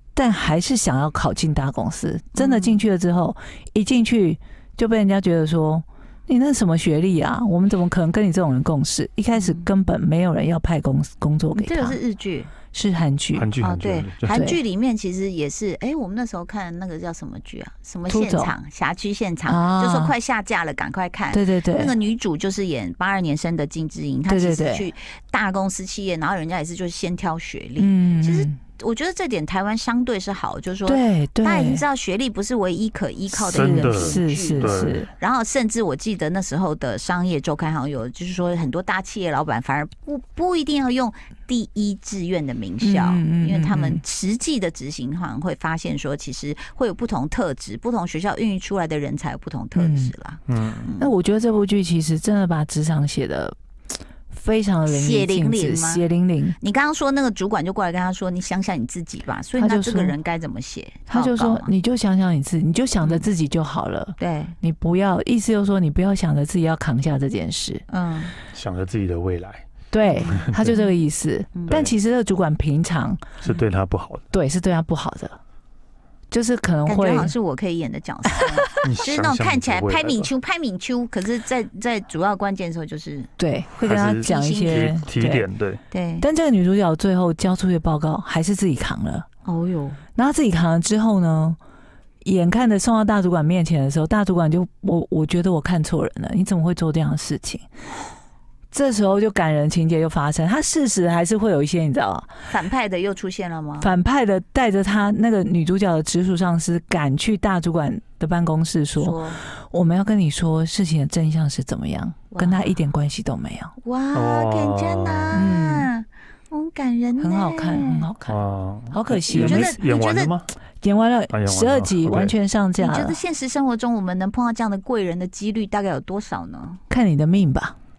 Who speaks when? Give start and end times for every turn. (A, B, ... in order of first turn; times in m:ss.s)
0:00.1-0:12.0 A
0:02.3-0:02.8 B
0:09.3-0:09.7 B
0:11.5-0:12.5 B
0:12.7-0:13.5 A
0:13.3-0:14.4 C
0:13.6-0:51.1 B
0:14.3-0:14.6 A
0:18.1-0:18.5 A
0:19.4-0:20.1 A
0:21.3-0:21.9 A
0:24.3-0:24.9 A
0:27.8-0:28.6 A
0:30.9-0:31.8 A
0:33.4-0:35.0 C
0:33.5-0:35.1 A
0:42.8-0:44.0 A
0:49.7-0:50.1 A
0:50.5-0:50.9 C
0:51.0-0:53.5 A
0:54.3-0:56.6 A
0:54.8-0:56.0 B
0:56.6-1:01.7 B
0:59.6-1:00.2 A
1:01.1-1:07.8 A
1:03.0-1:03.3 B
1:04.2-1:04.6 B
1:07.9-1:08.4 B
1:08.5-1:09.6 C
1:09.9-1:13.2 A
1:10.1-1:10.9 B
1:10.3-1:10.8 C
1:11.5-1:11.9 B
1:13.4-1:14.2 C
1:14.3-1:15.4 A
1:16.3-1:17.3 A
1:16.8-1:23.3 B
1:18.8-1:20.3 C
1:23.4-1:25.4 A
1:23.8-1:25.8 C
1:24.2-1:25.0 B
1:25.9-1:26.2 B
1:26.2-1:29.3 A
1:29.4-1:30.0 B
1:30.1-1:31.6 A
1:32.2-1:37.6 A
1:38.7-1:42.3 A
1:42.5-1:43.9 B
1:43.8-1:53.7 A
1:49.0-1:49.4 B
1:52.3-1:52.7 B
1:53.8-1:58.1 B
1:54.1-1:55.4 C
1:55.3-1:55.9 A
1:57.2-1:58.4 A
1:58.2-2:00.5 C
1:58.9-1:59.8 A
1:59.3-2:00.3 B
2:00.8-2:03.2 A
2:01.3-2:02.3 C
2:02.8-2:06.8 B
2:06.9-2:07.8 A